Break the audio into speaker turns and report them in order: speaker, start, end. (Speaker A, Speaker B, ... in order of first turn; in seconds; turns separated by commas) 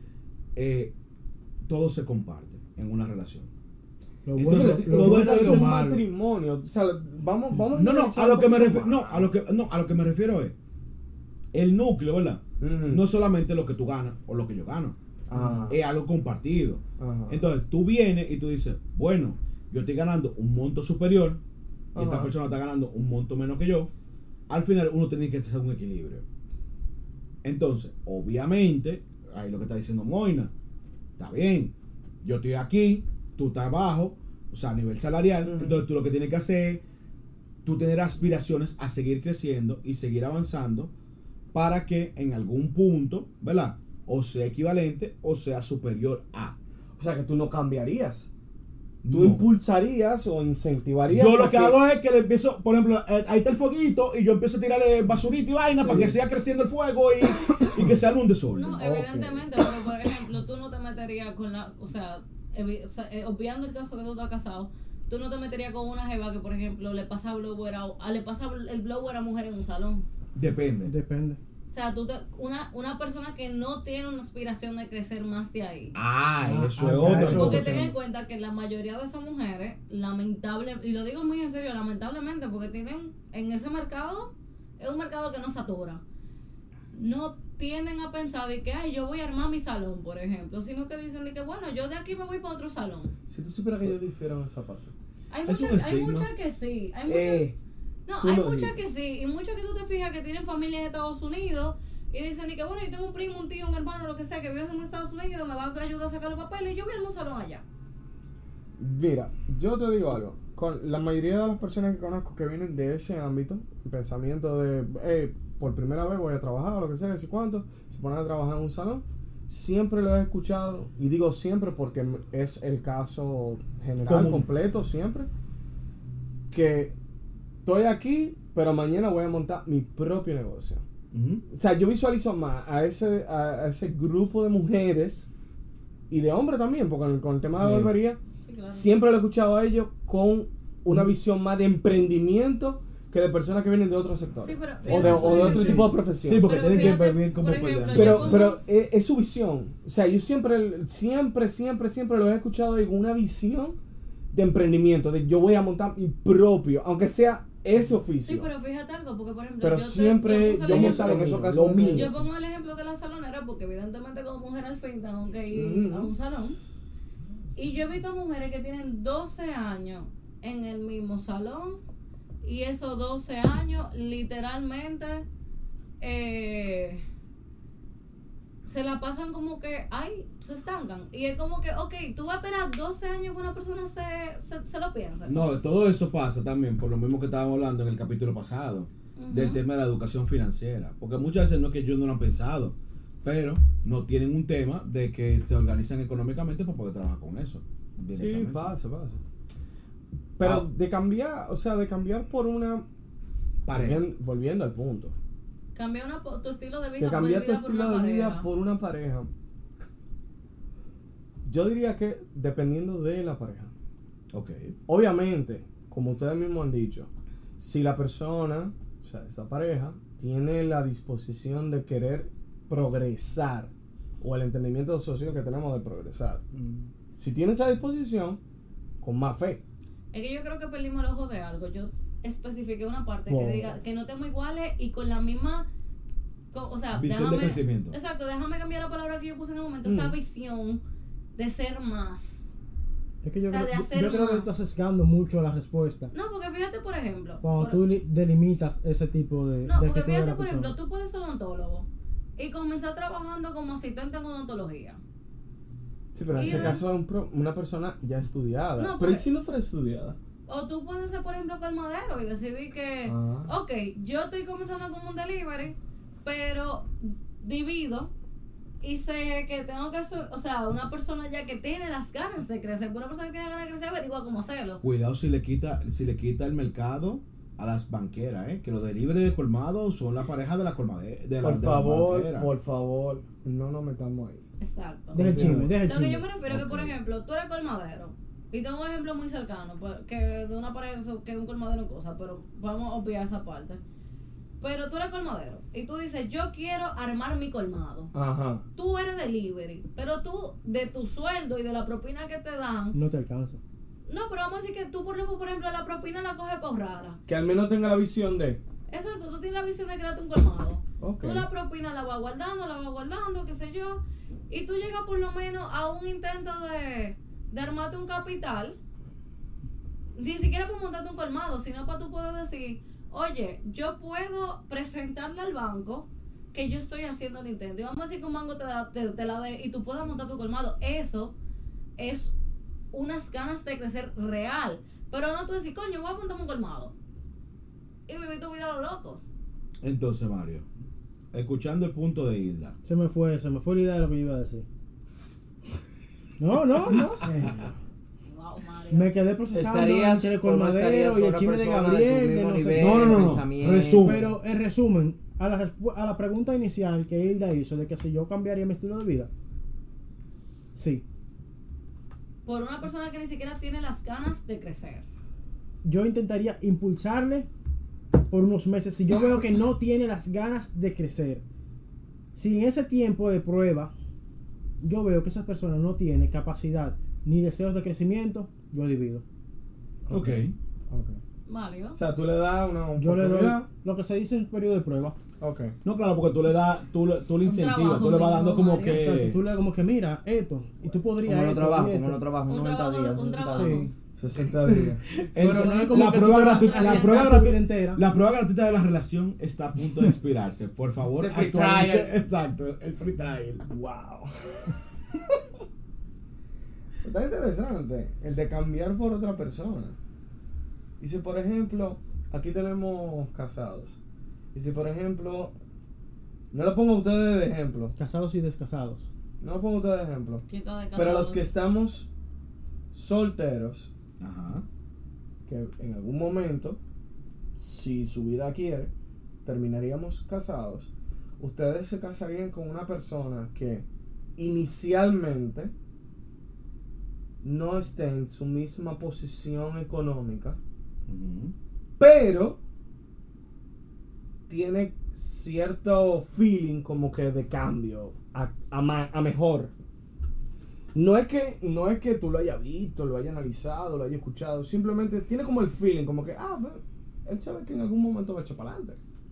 Speaker A: 0.6-0.9, Speaker A: 1.6-3.5, Speaker B: 4.3-6.0, Speaker A: 4.4-5.8, Speaker C: 4.4-9.3, Speaker A: 7.7-10.6, Speaker A: 11.5-15.0, Speaker C: 12.6-13.1, Speaker C: 15.3-15.8, Speaker A: 15.7-21.4, Speaker C: 17.0-17.4, Speaker C: 21.9-22.3, Speaker A: 22.0-23.9, Speaker A: 24.5-26.2, Speaker A: 27.4-30.5, Speaker A: 31.2-36.8, Speaker C: 35.4-35.8, Speaker A: 37.6-40.9, Speaker A: 41.5-46.5, Speaker C: 47.0-48.3, Speaker A: 49.0-49.5, Speaker C: 49.1-51.8, Speaker A: 51.1-58.8, Speaker C: 55.8-56.2, Speaker D: 58.5-70.1, Speaker C: 58.8-59.4, Speaker A: 70.3-70.9, Speaker B: 70.8-71.4, Speaker D: 71.7-76.0, Speaker A: 76.0-77.9, Speaker B: 76.5-77.9, Speaker D: 77.0-86.0, Speaker D: 86.9-93.1, Speaker C: 93.3-94.9, Speaker D: 95.3-97.5, Speaker A: 95.5-96.3, Speaker C: 97.1-97.6, Speaker D: 98.1-107.6, Speaker C: 98.2-98.8, Speaker C: 108.8-125.3, Speaker A: 124.1-124.5, Speaker C: 126.5-127.0, Speaker C: 127.7-130.8, Speaker A: 131.1-131.4, Speaker C: 131.5-135.3, Speaker C: 136.1-138.2, Speaker A: 137.6-137.9, Speaker D: 138.4-138.9, Speaker C: 138.7-147.0, Speaker D: 144.4-145.8, Speaker A: 144.8-148.5, Speaker D: 146.4-148.6, Speaker C: 147.9-153.8, Speaker C: 154.3-158.5, Speaker D: 158.2-161.3, Speaker C: 159.6-162.2, Speaker E: 160.6-162.2, Speaker D: 161.9-166.6, Speaker C: 165.5-166.1, Speaker D: 167.6-171.8, Speaker D: 172.4-175.3, Speaker D: 176.0-177.0, Speaker D: 178.6-185.5, Speaker A: 185.3-198.8, Speaker D: 189.2-189.6, Speaker C: 198.1-199.2, Speaker C: 200.4-202.8, Speaker A: 200.4-200.7, Speaker A: 203.7-204.0, Speaker C: 203.7-205.2, Speaker D: 205.8-208.5, Speaker C: 207.0-209.3, Speaker C: 211.4-213.7, Speaker A: 214.3-214.8, Speaker C: 214.9-226.4, Speaker C: 227.2-228.4, Speaker C: 229.0-229.6, Speaker D: 230.1-235.7, Speaker C: 233.3-233.8, Speaker D: 236.5-240.8, Speaker A: 236.9-238.0, Speaker C: 239.8-240.2, Speaker D: 241.4-242.5, Speaker B: 243.2-246.1, Speaker D: 243.5-244.5, Speaker D: 246.1-247.8, Speaker B: 247.4-250.7, Speaker D: 249.7-255.0, Speaker C: 256.1-260.2, Speaker D: 256.3-256.9, Speaker D: 258.8-259.3, Speaker D: 260.5-268.1, Speaker C: 263.1-263.5, Speaker D: 268.8-274.8, Speaker A: 274.8-282.5, Speaker C: 281.4-284.4, Speaker D: 284.6-293.8, Speaker B: 285.1-286.3, Speaker C: 285.2-285.7, Speaker A: 286.5-286.9, Speaker D: 294.6-298.1, Speaker C: 298.1-298.6, Speaker D: 298.8-303.0, Speaker B: 302.9-303.6, Speaker D: 304.1-307.2, Speaker C: 307.3-308.6, Speaker D: 308.9-318.8, Speaker C: 311.0-311.5, Speaker D: 320.2-331.3, Speaker D: 332.0-332.3, Speaker D: 332.9-336.9, Speaker D: 338.1-339.2, Speaker A: 339.8-340.7, Speaker A: 341.3-342.8, Speaker B: 342.8-344.6, Speaker B: 346.4-347.5, Speaker D: 348.3-349.1, Speaker B: 348.9-353.4, Speaker E: 349.5-354.2, Speaker A: 352.7-354.4, Speaker B: 354.0-359.3, Speaker B: 360.8-361.0, Speaker D: 362.4-365.1, Speaker B: 365.8-367.5, Speaker B: 368.3-371.4, Speaker B: 372.4-373.9, Speaker B: 374.8-379.2, Speaker C: 380.1-381.2, Speaker A: 380.1-380.6, Speaker D: 381.5-382.0, Speaker C: 381.9-383.7, Speaker B: 383.0-385.2, Speaker C: 385.4-385.8, Speaker A: 385.8-389.4, Speaker D: 387.4-389.0, Speaker B: 388.9-392.2, Speaker E: 391.2-393.9, Speaker D: 392.5-393.9, Speaker C: 393.5-395.0, Speaker A: 395.3-403.7, Speaker B: 395.4-398.0, Speaker D: 395.9-397.4, Speaker C: 401.2-402.1, Speaker C: 403.7-404.8, Speaker C: 407.0-410.0, Speaker C: 411.0-414.0, Speaker C: 414.5-415.5, Speaker C: 416.5-417.9, Speaker B: 418.0-419.1, Speaker C: 419.4-422.1, Speaker D: 420.5-421.5, Speaker C: 422.9-423.9, Speaker A: 424.2-424.6, Speaker C: 425.5-426.8, Speaker C: 427.6-428.9, Speaker C: 429.4-433.9, Speaker C: 434.4-435.7, Speaker C: 437.4-440.6, Speaker A: 441.1-441.5, Speaker C: 442.0-442.6, Speaker C: 444.5-449.7, Speaker C: 450.9-459.0